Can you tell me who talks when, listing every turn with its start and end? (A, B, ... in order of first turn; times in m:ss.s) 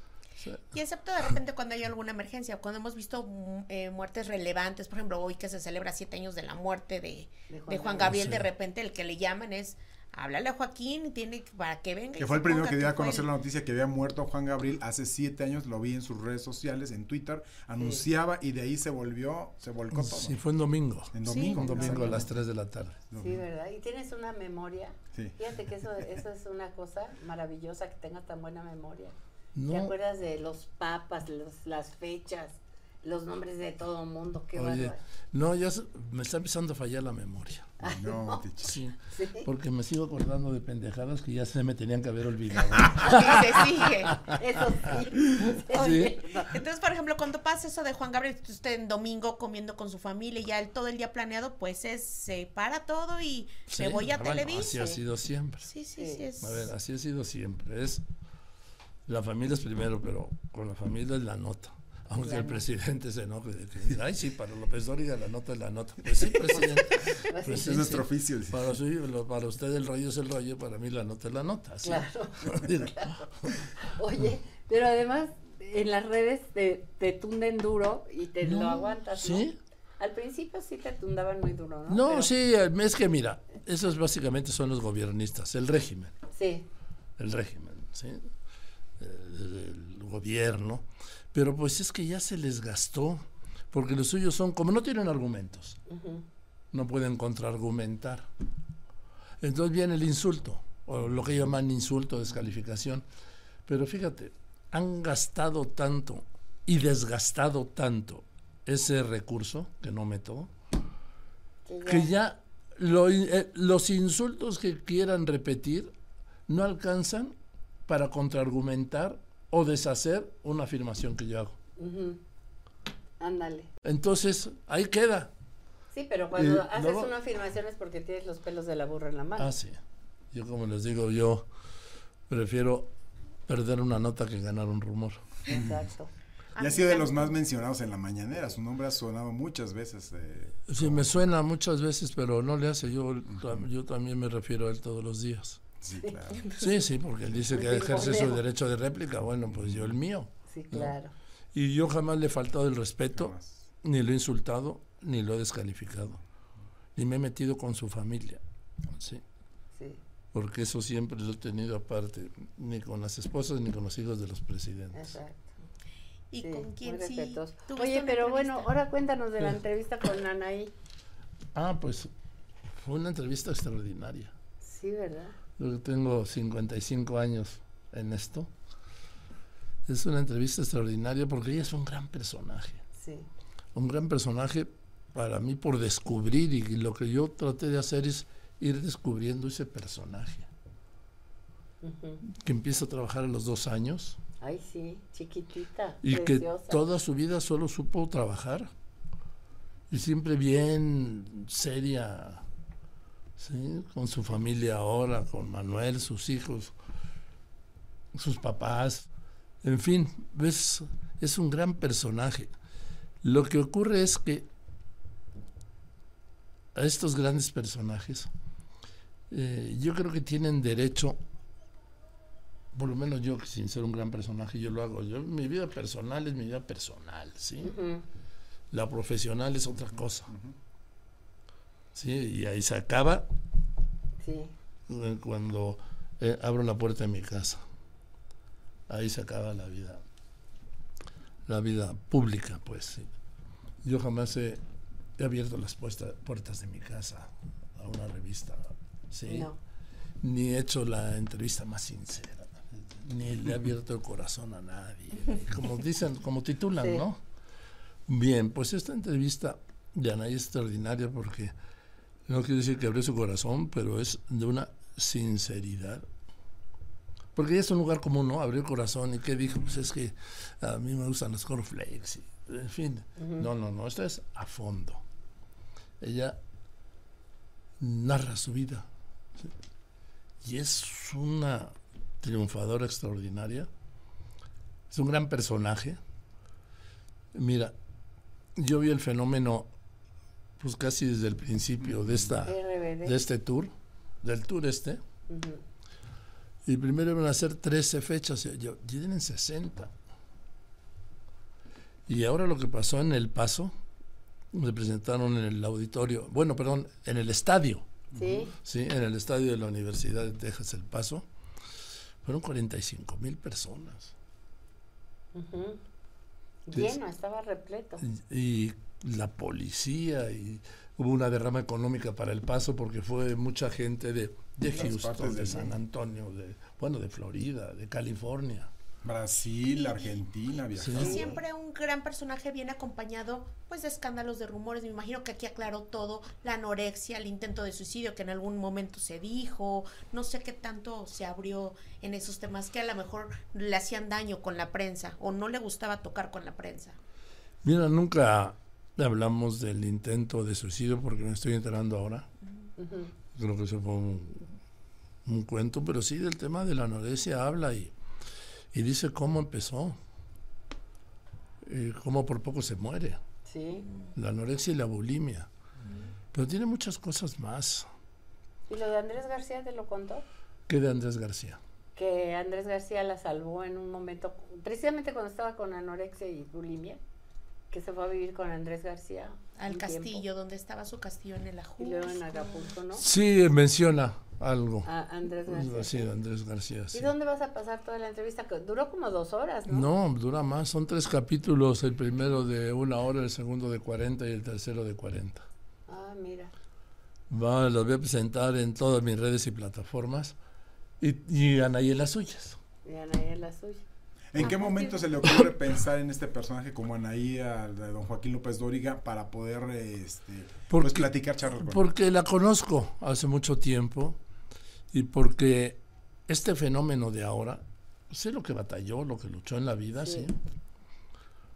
0:00.4-0:00.7 A
0:00.7-0:13.3 B
0:07.5-0:08.2 C
0:08.0-0:08.5 A
0:12.2-0:20.4 D
0:17.8-0:18.0 C
0:19.9-0:23.0 A
0:21.1-0:22.3 D
0:21.2-0:21.7 B
0:21.7-0:22.2 C
0:23.1-0:23.4 D
0:23.2-0:29.2 C
0:29.5-0:30.0 A
0:29.7-0:35.0 C
0:34.5-0:37.7 A
0:37.8-0:38.4 C
0:37.8-0:38.8 D
0:38.6-0:44.4 A
0:39.1-0:39.5 C
0:43.1-0:44.2 B
0:44.1-0:46.5 C
0:44.9-0:46.4 A
0:45.7-0:54.8 B
0:53.7-0:55.7 A
0:54.5-0:55.0 C
0:55.6-0:56.7 B
0:56.0-0:56.3 C
0:56.4-0:58.0 A
0:59.0-1:13.7 A
1:02.2-1:02.6 C
1:06.5-1:07.7 C
1:07.6-1:08.7 D
1:11.8-1:22.3 C
1:18.4-1:19.6 A
1:21.9-1:26.2 A
1:26.3-1:26.7 C
1:27.2-1:28.3 A
1:29.0-1:35.8 A
1:35.9-1:36.2 C
1:36.7-1:38.2 A
1:39.4-1:43.0 A
1:43.7-1:50.5 A
1:51.6-1:52.1 C
1:51.8-1:55.9 A
1:56.5-1:57.3 A
1:57.9-2:01.6 A
2:01.8-2:02.2 C
2:03.2-2:03.7 C
2:03.8-2:05.3 A
2:05.9-2:09.5 C
2:06.3-2:07.1 A
2:09.4-2:09.8 A
2:10.3-2:11.5 A
2:12.3-2:12.9 A
2:13.5-2:15.2 A
2:15.4-2:16.1 C
2:15.5-2:15.7 D
2:16.6-2:17.3 B
2:16.6-2:21.2 D
2:20.7-2:25.6 A
2:25.8-2:26.5 D
2:26.6-2:31.0 A
2:27.5-2:28.4 C
2:29.5-2:29.9 D
2:30.5-2:31.1 C
2:31.5-2:36.2 A
2:33.1-2:33.6 D
2:37.0-2:39.2 A
2:39.7-2:40.0 C
2:40.3-2:45.2 A
2:44.9-2:45.6 C
2:46.3-2:48.7 B
2:46.4-2:50.7 C
2:51.5-2:52.1 A
2:52.7-2:54.3 A
2:54.6-2:55.4 C
2:55.6-2:58.5 A
2:59.9-3:02.8 A
3:02.9-3:03.3 C
3:03.7-3:10.5 A
3:11.8-3:12.2 C
3:12.2-3:14.2 A
3:14.4-3:16.8 C
3:16.0-3:18.7 A
3:19.9-3:22.4 A
3:23.4-3:26.7 A
3:28.1-3:29.1 A
3:29.6-3:32.5 A
3:33.2-3:34.5 A
3:36.7-3:38.3 A
3:39.3-3:41.2 A
3:42.7-3:47.7 A
3:47.6-3:48.0 C
3:48.7-3:50.3 A
3:50.2-3:50.5 D
3:51.9-3:53.2 A
3:54.2-3:54.5 C
3:54.9-3:57.6 A
3:58.9-4:00.0 A
4:01.5-4:03.0 A
4:03.8-4:04.6 A
4:05.2-4:09.5 A
4:09.3-4:09.6 C
4:10.2-4:17.2 A
4:16.8-4:17.0 C
4:18.1-4:21.5 A
4:22.3-4:26.0 A
4:27.3-4:35.0 A
4:33.2-4:33.4 C
4:36.0-4:36.4 A
4:37.8-4:39.5 A
4:40.4-4:43.7 A
4:44.9-4:46.0 A
4:47.3-4:47.7 A
4:48.6-4:49.7 A
4:50.6-4:55.0 A
4:52.4-4:53.2 C
4:55.3-4:55.6 C
4:56.6-4:59.9 A
5:02.1-5:03.7 A
5:04.5-5:07.9 A
5:08.1-5:08.5 C
5:08.6-5:11.2 A
5:12.2-5:14.1 A
5:15.3-5:15.8 C
5:16.6-5:18.0 C
5:16.7-5:17.0 A
5:18.0-5:28.7 A
5:24.7-5:25.8 D
5:29.0-5:31.3 D
5:29.7-5:30.1 B
5:30.7-5:31.3 A
5:30.9-5:31.4 C
5:31.0-5:47.0 B
5:47.6-5:52.3 A
5:52.8-5:53.1 C
5:53.3-5:54.5 A
5:55.2-5:57.9 A
5:58.7-6:00.0 A
6:01.6-6:03.2 A
6:03.4-6:03.9 C
6:04.1-6:05.5 A
6:06.3-6:07.8 A
6:08.7-6:10.2 C
6:10.7-6:11.6 A
6:11.9-6:17.0 C
6:17.7-6:20.2 C
6:19.5-6:22.7 B
6:21.8-6:23.0 C
6:22.9-6:24.9 A
6:24.8-6:26.1 C
6:25.5-6:27.1 A
6:26.9-6:29.9 C
6:29.7-6:35.4 A
6:35.9-6:36.5 C
6:37.3-6:40.3 A
6:41.0-6:42.6 A
6:42.8-6:43.8 C
6:44.3-6:51.9 D
6:44.4-6:44.9 B
6:45.2-6:45.5 A
6:50.7-6:54.2 A
6:54.9-7:00.4 A
6:59.9-7:00.3 C